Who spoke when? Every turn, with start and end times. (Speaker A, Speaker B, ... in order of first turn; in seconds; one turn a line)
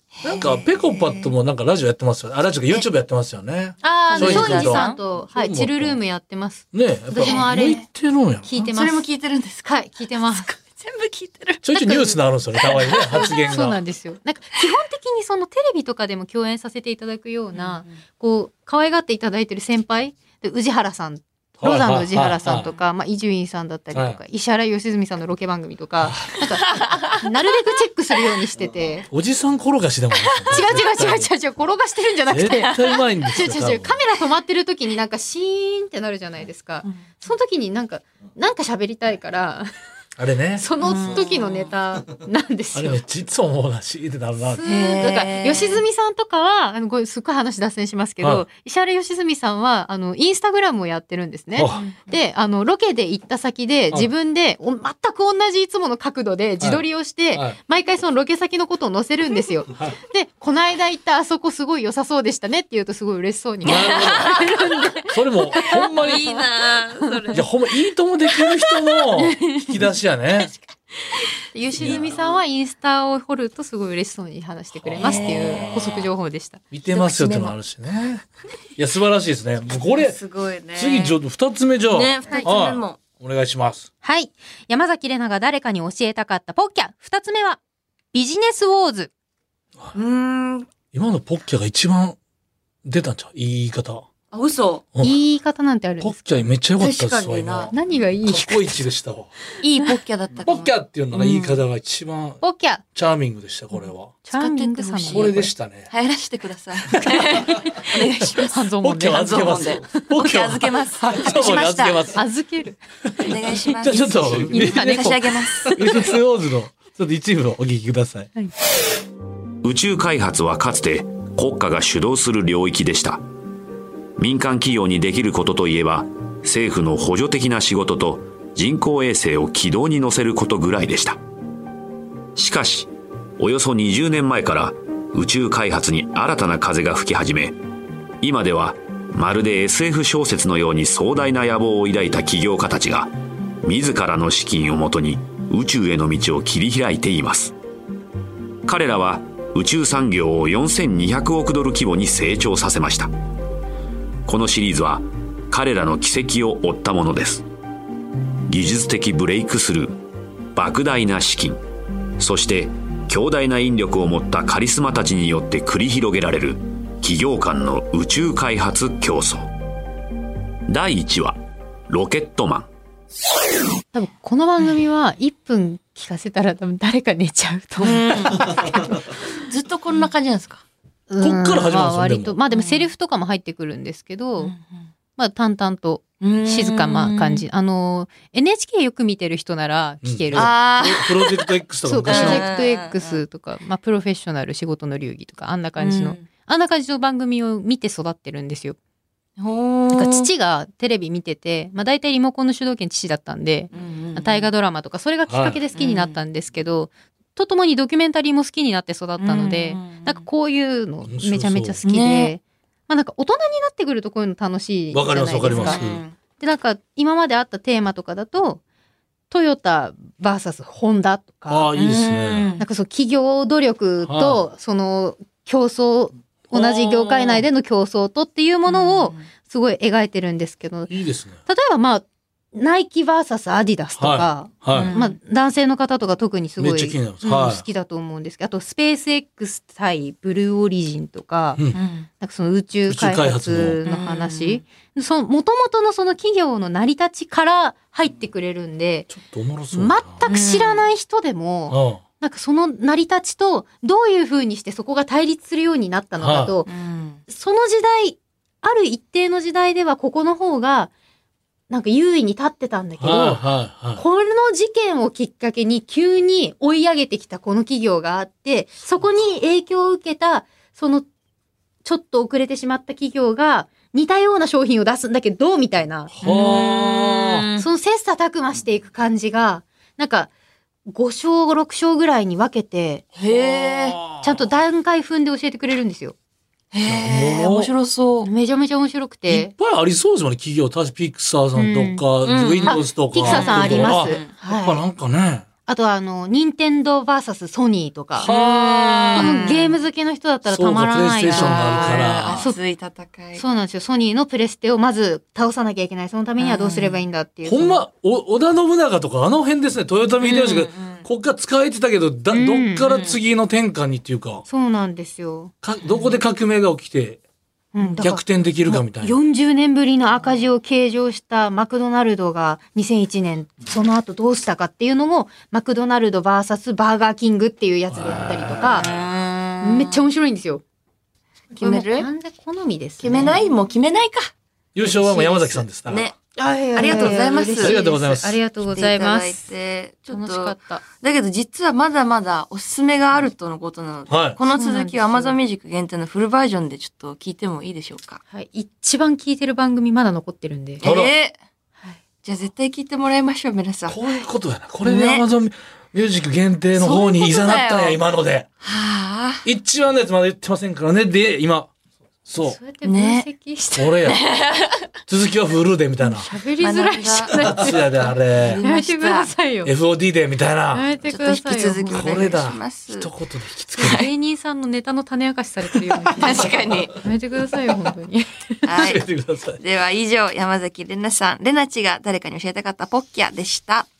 Speaker A: 0.1-1.3
Speaker B: 0.2-6.0
Speaker C: 3.8-7.8
Speaker A: 4.1-5.0
Speaker B: 6.7-8.7
Speaker A: 7.2-7.8
Speaker C: 8.4-9.0
Speaker A: 8.7-11.9
Speaker C: 9.6-10.5
Speaker B: 11.6-13.8
Speaker C: 11.8-12.2
Speaker A: 12.6-13.4
Speaker C: 13.1-29.1
Speaker A: 17.5-18.0
Speaker B: 21.6-22.7
Speaker B: 23.9-24.2
Speaker B: 26.0-26.4
Speaker A: 26.7-27.2
Speaker B: 29.1-31.3
Speaker C: 30.5-39.7
Speaker B: 32.3-34.0
Speaker A: 36.8-37.1
Speaker B: 40.2-40.6
Speaker C: 40.6-43.0
Speaker A: 40.8-41.7
Speaker B: 42.7-44.6
Speaker C: 44.5-65.9
Speaker A: 44.6-45.8
Speaker B: 51.5-51.8
Speaker A: 51.7-52.2
Speaker B: 56.6-57.6
Speaker B: 63.6-64.4
Speaker A: 63.6-65.0
Speaker B: 65.0-66.3
Speaker A: 65.5-67.5
Speaker B: 67.3-70.5
Speaker A: 68.4-69.8
Speaker A: 70.3-70.6
Speaker C: 71.5-76.6
Speaker B: 71.8-72.0
Speaker A: 71.8-72.2
Speaker B: 74.8-75.8
Speaker A: 75.0-76.1
Speaker B: 76.7-78.2
Speaker A: 76.9-77.5
Speaker B: 78.8-80.2
Speaker A: 79.8-81.2
Speaker B: 80.7-83.9
Speaker A: 81.9-83.0
Speaker C: 84.0-87.6
Speaker C: 88.1-89.1
Speaker A: 89.9-90.7
Speaker B: 90.9-92.2
Speaker B: 92.8-94.0
Speaker A: 94.3-94.8
Speaker C: 95.0-96.2
Speaker B: 96.0-99.3
Speaker A: 96.8-97.7
Speaker C: 97.7-98.7
Speaker C: 99.6-100.0
Speaker A: 99.6-101.6
Speaker B: 100.4-102.4
Speaker C: 102.4-102.8
Speaker B: 102.9-104.1
Speaker C: 104.2-105.5
Speaker A: 104.3-112.1
Speaker B: 105.1-105.9
Speaker B: 107.3-112.2
Speaker C: 108.5-109.6
Speaker C: 112.1-112.8
Speaker B: 113.1-118.3
Speaker A: 113.2-116.0
Speaker C: 114.5-115.1
Speaker D: 119.6-123.2
Speaker D: 124.2-131.2
Speaker D: 132.3-137.6
Speaker D: 138.2-147.5
Speaker D: 148.6-153.1
Speaker D: 154.2-157.4
Speaker D: 158.5-160.0
Speaker D: 160.5-161.6
Speaker D: 162.2-169.5
Speaker D: 170.7-172.7
Speaker C: 173.9-178.9
Speaker A: 177.8-180.6
Speaker C: 181.1-184.5
Speaker B: 181.2-182.4
Speaker A: 182.5-182.9
Speaker A: 184.4-184.9
Speaker C: 185.2-190.5
Speaker A: 186.2-187.4
Speaker B: 190.0-192.5
Speaker A: 190.3-191.5
Speaker C: 191.8-198.8
Speaker A: 192.1-193.2
Speaker A: 195.8-196.2
Speaker A: 199.4-200.3
Speaker C: 199.9-215.8
Speaker A: 203.7-204.5
Speaker B: 205.3-205.6
Speaker A: 205.7-206.2
Speaker A: 209.2-210.2
Speaker B: 211.0-211.8
Speaker A: 211.8-212.3
Speaker B: 214.9-216.0
Speaker A: 215.5-216.1
Speaker C: 216.4-218.6
Speaker C: 219.3-221.7
Speaker B: 221.5-222.5
Speaker A: 221.7-222.7
Speaker C: 222.6-230.9
Speaker B: 224.0-224.4
Speaker A: 226.5-227.4
Speaker A: 228.7-229.3
Speaker B: 230.9-231.4
Speaker C: 231.4-241.6
Speaker B: 234.0-234.9
Speaker A: 234.7-235.2
Speaker B: 236.6-237.6
Speaker A: 241.7-242.1
Speaker C: 242.2-249.1
Speaker B: 242.9-243.8
Speaker A: 243.8-244.6
Speaker B: 249.1-250.2
Speaker C: 249.7-256.7
Speaker A: 250.3-250.8
Speaker B: 251.7-252.0
Speaker B: 256.2-256.5
Speaker A: 256.6-257.2
Speaker C: 257.3-260.9
Speaker C: 261.7-271.1
Speaker B: 263.0-264.0
Speaker C: 271.8-276.1
Speaker B: 276.1-277.5
Speaker A: 276.2-277.6
Speaker C: 277.6-280.3
Speaker C: 280.9-283.1
Speaker A: 283.2-284.0
Speaker B: 283.2-284.4
Speaker C: 284.2-286.1
Speaker A: 286.7-288.3
Speaker B: 286.8-287.7
Speaker C: 288.2-289.5
Speaker B: 289.3-295.5
Speaker C: 291.5-292.0
Speaker A: 292.2-294.3
Speaker C: 292.6-294.8
Speaker C: 295.6-298.3
Speaker B: 298.2-299.3
Speaker A: 298.2-299.8
Speaker C: 299.1-302.6
Speaker B: 300.4-302.5
Speaker A: 301.3-303.4
Speaker C: 303.4-307.8
Speaker A: 306.4-307.0
Speaker B: 307.4-314.4
Speaker A: 310.2-311.1
Speaker C: 312.3-312.9
Speaker A: 312.9-313.1
Speaker C: 314.5-315.5
Speaker B: 315.6-317.2
Speaker A: 315.8-316.1
Speaker C: 317.7-328.9
Speaker B: 318.0-319.2
Speaker B: 327.9-329.0
Speaker A: 328.6-330.0
Speaker C: 329.6-330.6
Speaker A: 331.5-332.1
Speaker C: 331.6-333.4
Speaker A: 333.0-334.3
Speaker B: 334.7-336.1
Speaker C: 334.9-335.2
Speaker A: 335.0-337.8
Speaker C: 336.4-339.4
Speaker B: 336.9-338.4
Speaker A: 338.6-348.2
Speaker C: 340.1-340.8
Speaker B: 344.1-344.4
Speaker C: 344.5-345.4
Speaker C: 348.3-350.8
Speaker A: 350.8-351.4
Speaker B: 350.8-351.1
Speaker A: 352.2-354.1
Speaker B: 353.9-358.5
Speaker A: 354.8-355.2
Speaker A: 356.7-358.0
Speaker A: 358.6-359.4
Speaker B: 359.4-361.7
Speaker B: 362.2-362.6
Speaker C: 362.4-364.0
Speaker A: 362.8-363.3
Speaker B: 363.8-364.2
Speaker A: 364.1-364.9
Speaker B: 365.1-366.3
Speaker C: 366.0-367.9
Speaker A: 366.6-367.6
Speaker B: 367.3-368.6
Speaker A: 368.3-369.3
Speaker C: 368.6-369.7
Speaker B: 369.6-370.9
Speaker C: 370.7-372.3
Speaker A: 371.0-373.1
Speaker B: 371.9-374.1
Speaker C: 373.8-378.7
Speaker A: 373.8-374.1
Speaker A: 376.1-376.9
Speaker A: 378.6-379.0
Speaker B: 378.7-379.6
Speaker A: 379.6-383.9